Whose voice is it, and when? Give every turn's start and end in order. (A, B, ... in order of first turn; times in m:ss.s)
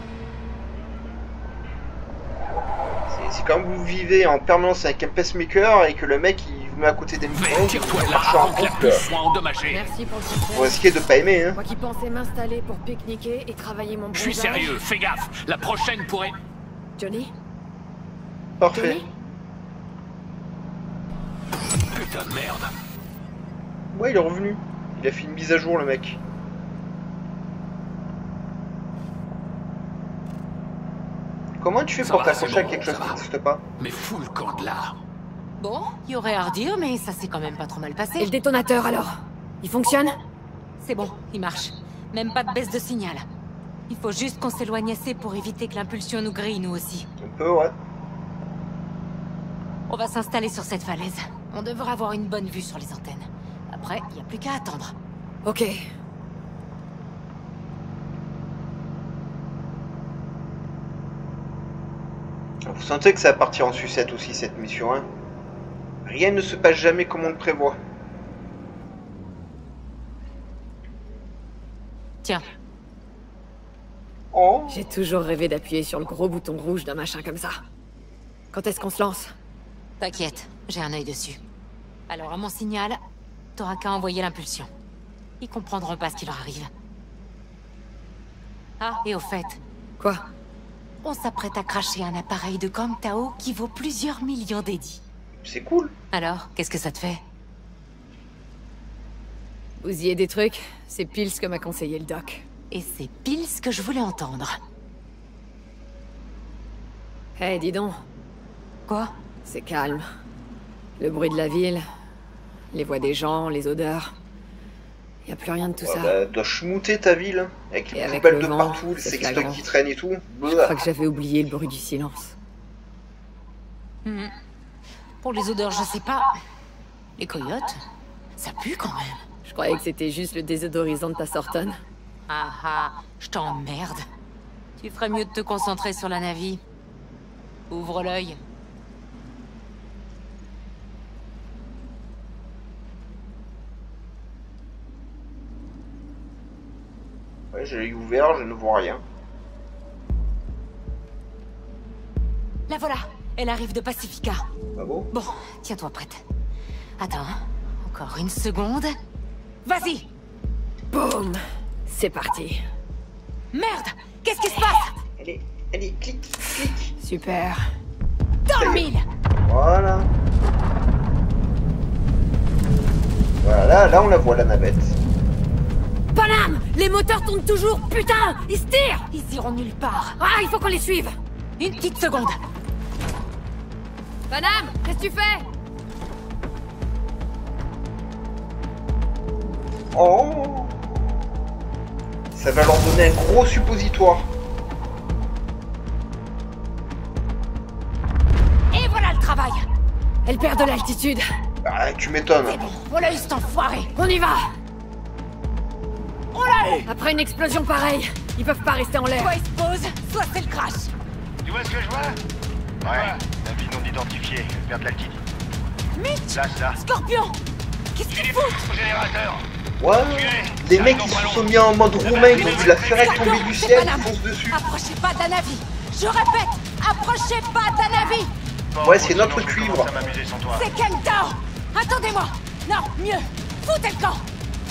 0:03.1-0:09.0 A
0:07.3-0:09.8 B
0:09.7-0:10.8 C
0:10.5-0:11.6 A
0:11.6-0:14.8 C
0:14.1-0:16.3 B
0:17.0-0:17.3 C
0:18.6-0:19.0 A
0:21.9-0:22.7 B
0:23.9-0:26.2 A
0:31.6-0:33.6 A
0:32.0-0:33.2 B
0:33.8-0:35.0 B
0:35.6-0:38.3 D
0:38.2-0:40.2 C
0:40.8-0:43.2 D
0:43.9-0:47.1 D
0:47.2-0:47.8 A
0:49.9-0:54.9 D
0:55.4-0:55.8 C
1:02.6-1:05.1 A
1:06.0-1:07.8 A
1:14.3-1:14.8 A
1:14.7-1:17.6 C
1:18.5-1:19.3 C
1:20.0-1:21.4 D
1:22.1-1:23.0 D
1:23.6-1:24.7 D
1:25.4-1:26.7 D
1:28.8-1:29.6 D
1:30.0-1:30.2 C
1:31.0-1:35.0 D
1:35.4-1:35.9 A
1:36.1-1:37.2 D
1:39.8-1:42.4 C
1:42.7-1:44.6 D
1:47.4-1:48.0 C
1:48.9-1:49.1 D
1:49.4-1:50.0 C
1:51.0-1:51.8 C
1:52.7-1:54.1 C
1:55.2-1:56.1 C
1:55.8-2:00.8 A
1:57.9-1:59.6 C
2:00.4-2:02.3 C
2:04.0-2:04.3 D
2:05.2-2:06.3 D
2:07.2-2:07.8 D
2:08.4-2:09.2 D
2:09.4-2:11.8 C
2:12.3-2:14.0 D
2:14.8-2:16.6 D
2:17.7-2:18.4 D
2:27.5-2:29.0 A
2:32.7-2:34.4 D
2:34.8-2:35.1 A
2:35.1-2:36.2 D
2:37.0-2:39.0 D
2:39.6-2:40.1 D
2:40.9-2:42.6 C
2:43.5-2:45.0 D
2:45.2-2:46.9 A
2:47.0-2:47.6 C
2:48.4-2:49.0 D
2:48.6-2:48.8 A
2:49.4-2:50.1 A
2:53.4-2:55.0 A
2:56.1-2:59.1 C
2:59.1-3:00.2 D
3:00.2-3:01.2 C
3:01.6-3:02.4 D
3:04.3-3:05.4 C
3:09.9-3:11.0 A
3:12.3-3:14.3 A
3:18.7-3:19.7 D
3:20.2-3:21.2 C
3:21.6-3:22.6 A
3:22.4-3:23.9 D
3:24.0-3:24.5 C
3:26.3-3:26.9 D
3:26.8-3:29.3 C
3:29.2-3:30.9 D
3:31.4-3:32.2 E
3:32.8-3:35.2 E
3:35.9-3:37.4 D
3:36.3-3:36.8 E
3:37.9-3:38.7 D
3:38.2-3:39.4 E
3:39.8-3:44.6 A
3:40.1-3:43.1 E
3:42.2-3:48.3 D
3:48.7-3:50.7 E
3:48.8-3:49.9 A
3:50.5-3:54.2 D